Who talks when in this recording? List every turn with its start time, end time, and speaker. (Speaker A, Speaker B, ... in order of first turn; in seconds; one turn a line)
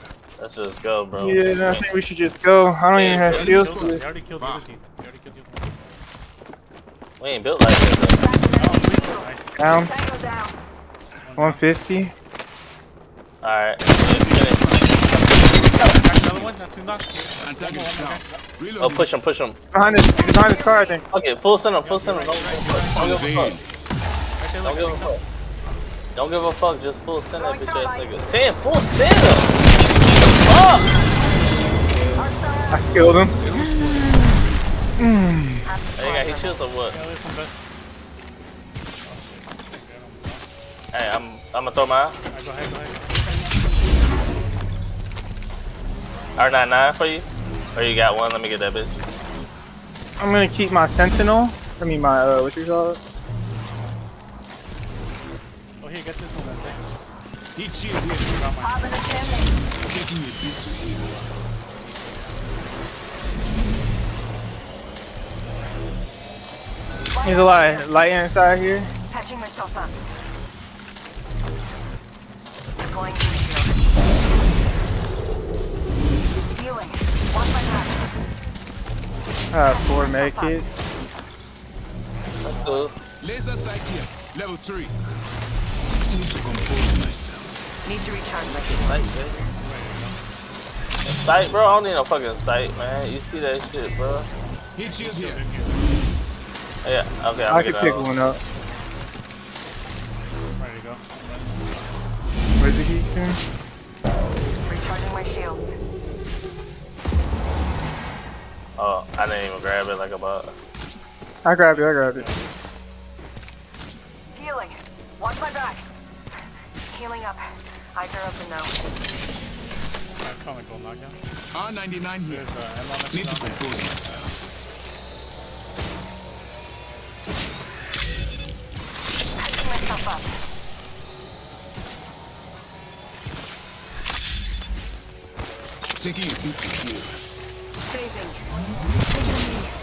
Speaker A: 0.4-1.9
Speaker B: 1.2-4.0
Speaker A: 2.9-3.6
Speaker C: 3.3-4.7
Speaker D: 3.4-6.0
Speaker A: 7.2-8.3
Speaker E: 8.2-9.2
Speaker D: 8.5-9.7
Speaker B: 9.6-9.9
Speaker E: 9.8-10.3
Speaker D: 11.2-12.1
Speaker B: 11.3-12.1
Speaker A: 13.4-16.0
Speaker C: 14.0-16.6
Speaker D: 15.8-18.4
Speaker C: 17.4-19.1
Speaker A: 18.8-19.6
Speaker B: 19.7-21.0
Speaker E: 20.1-21.0
Speaker A: 21.1-23.6
Speaker D: 21.8-23.1
Speaker C: 22.9-23.6
Speaker D: 24.4-25.1
Speaker A: 24.6-25.2
Speaker A: 26.1-29.6
Speaker E: 27.4-28.4
Speaker A: 30.2-31.0
Speaker E: 30.9-31.3
Speaker B: 31.8-34.4
Speaker E: 32.1-32.8
Speaker C: 33.4-35.1
Speaker B: 35.0-35.7
Speaker E: 35.6-36.6
Speaker A: 35.9-37.0
Speaker D: 36.9-37.6
Speaker D: 39.0-40.5
Speaker A: 40.9-42.2
Speaker D: 42.3-43.2
Speaker A: 46.4-49.0
Speaker B: 50.2-53.0
Speaker D: 55.8-57.0
Speaker C: 57.5-58.3
Speaker D: 58.2-59.0
Speaker E: 58.6-59.5
Speaker C: 59.8-61.1
Speaker D: 60.9-62.6
Speaker E: 67.1-67.9
Speaker B: 67.2-68.9
Speaker E: 69.1-70.0
Speaker E: 72.8-73.8
Speaker E: 76.5-78.0
Speaker B: 79.5-80.7
Speaker E: 79.7-80.6
Speaker A: 82.4-82.9
Speaker C: 83.2-85.0
Speaker C: 86.1-87.6
Speaker E: 87.8-89.0
Speaker A: 88.5-89.4
Speaker D: 89.5-90.2
Speaker A: 91.0-94.3
Speaker C: 94.8-95.4
Speaker D: 94.8-96.0
Speaker A: 96.8-98.1
Speaker B: 97.5-98.4
Speaker D: 100.5-102.0
Speaker B: 102.6-103.4
Speaker E: 104.7-105.7
Speaker A: 108.8-110.5
Speaker B: 111.4-112.2
Speaker D: 111.7-112.5
Speaker E: 114.3-115.8
Speaker E: 116.9-117.4
Speaker E: 118.0-118.7
Speaker D: 120.2-121.2
Speaker C: 121.5-122.5
Speaker D: 122.3-123.8
Speaker C: 123.1-124.4
Speaker E: 129.4-130.3
Speaker C: 136.0-137.2
Speaker E: 137.9-138.4